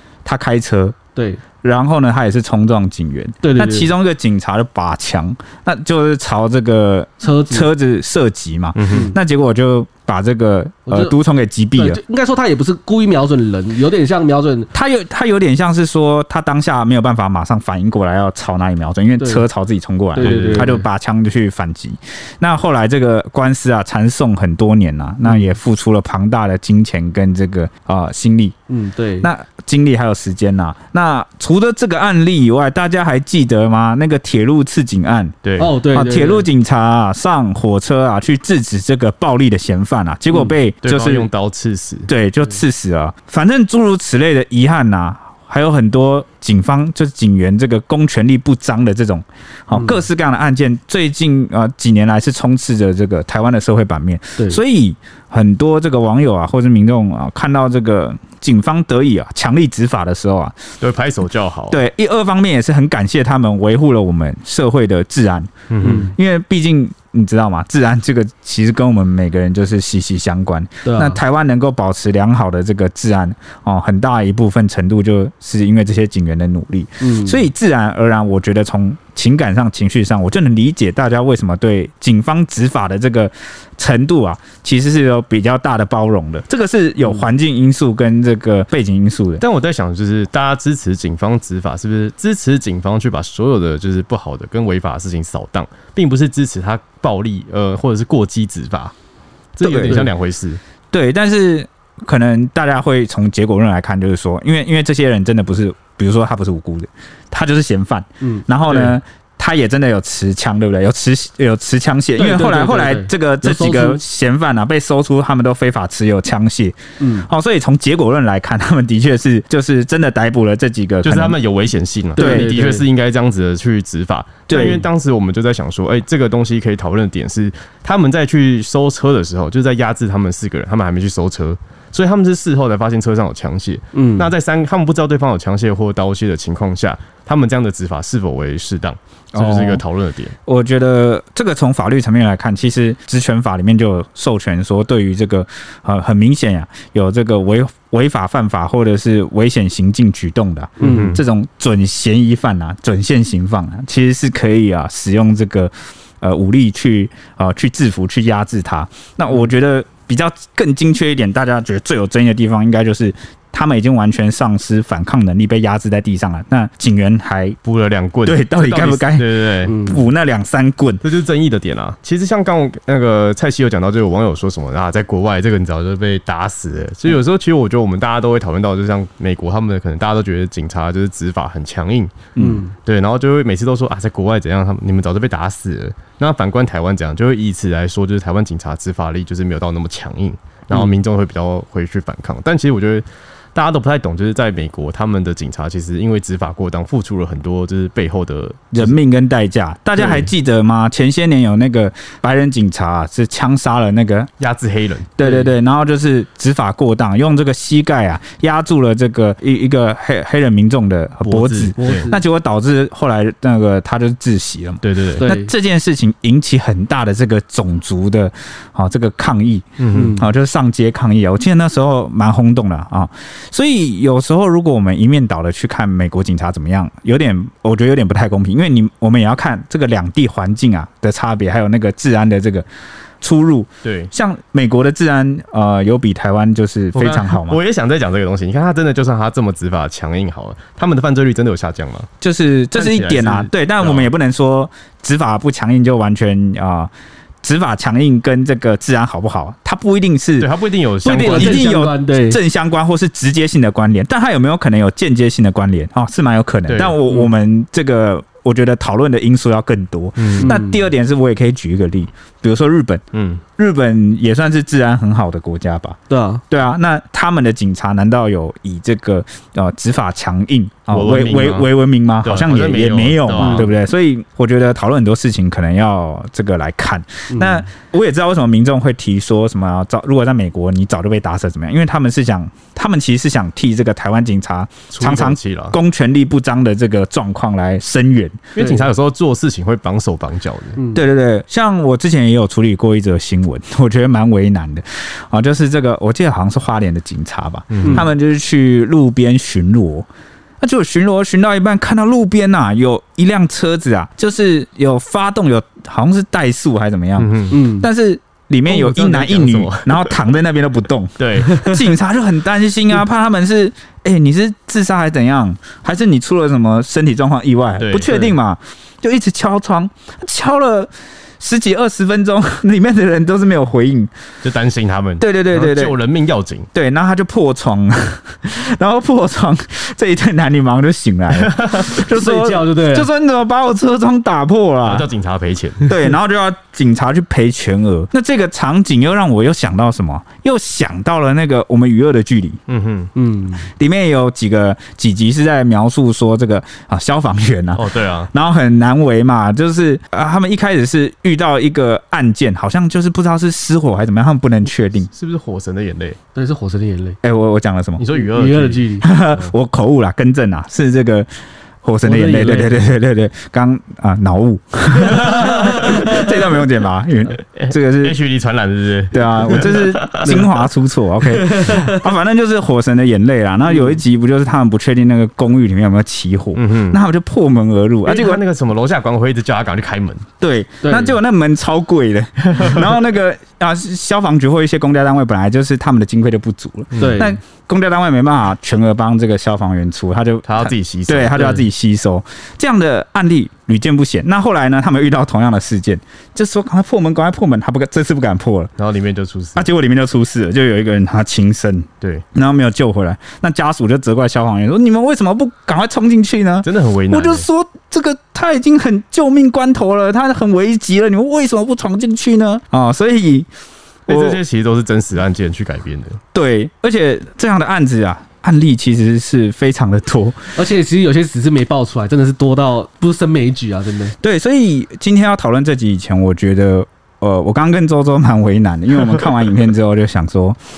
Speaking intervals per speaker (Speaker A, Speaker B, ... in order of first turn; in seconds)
Speaker A: 0.2-1.0, 1.6-12.0, 14.7-28.6, 29.2-35.4, 35.9-41.3, 42.1-60.5, 61.7-89.4, 99.6-100.0, 100.9-121.4, 122.2-122.6, 124.5-124.8, 139.3-139.8, 140.4-167.6, 168.2-171.0, 198.7-204.3, 205.2-232.7, 233.2-237.6, 242.2-246.9, 247.4-250.5, 251.1-263.0, 263.6-266.0, 266.5-288.5, 290.9-300.1, 300.6-324.1, 325.2-325.9, 326.7-335.1, 335.9-342.6, 343.7-355.1, 357.2-358.1, 359.0-361.3, 361.8-368.2, 369.1-378.4, 380.4-398.7, 399.6-413.5, 414.1-414.4, 416.3-420.5, 424.2-430.6
Speaker B: 1.1-1.4, 3.4-3.9, 7.2-7.7, 8.9-9.2, 10.9-11.1, 11.8-14.7, 19.2-19.4, 20.1-20.9, 28.7-29.3, 35.6-36.5, 49.7-50.0, 65.8-66.1, 70.8-71.2, 77.0-77.4, 108.2-108.9, 112.2-114.0, 117.0-117.3, 122.2-122.8, 124.5-124.8, 133.9-134.3, 150.8-151.1, 169.7-170.0, 182.4-182.7, 205.2-205.5, 211.8-212.2, 215.2-215.5, 219.9-220.3, 251.0-252.4, 260.4-260.8, 266.1-266.4, 273.4-273.7, 277.3-277.6, 288.6-288.9, 307.5-307.9, 332.1-333.1, 343.1-343.6, 356.3-357.2, 358.1-359.1, 362.0-362.8, 365.1-366.2, 371.4-372.0, 373.7-373.9, 380.8-381.1, 387.0-387.4, 420.5-424.1
Speaker C: 8.8-9.1, 20.1-20.7, 35.4-35.7, 40.8-42.1, 60.8-61.8, 65.7-66.1, 89.4-98.9, 99.5-100.6, 121.0-140.3, 150.8-151.2, 167.6-169.8, 171.0-198.9, 200.0-200.3, 204.4-205.1, 211.2-212.1, 214.8-215.2, 219.8-220.2, 233.8-234.1, 236.9-242.1, 242.7-244.1, 250.4-251.7, 256.7-257.0, 260.2-260.6, 263.1-263.4, 270.9-271.7, 272.2-273.7, 284.9-285.8, 288.5-290.8, 297.7-298.1, 307.2-307.6, 308.7-310.2, 311.2-311.8, 317.8-318.3, 324.4-326.7, 331.3-331.9, 334.8-336.0, 342.7-343.1, 347.7-348.3, 355.1-356.2, 358.0-359.5, 365.4-366.0, 367.5-370.6, 376.5-377.0, 378.0-380.2, 382.5-382.8, 386.9-387.3, 390.4-391.6, 398.8-399.7, 406.6-407.4, 414.1-416.2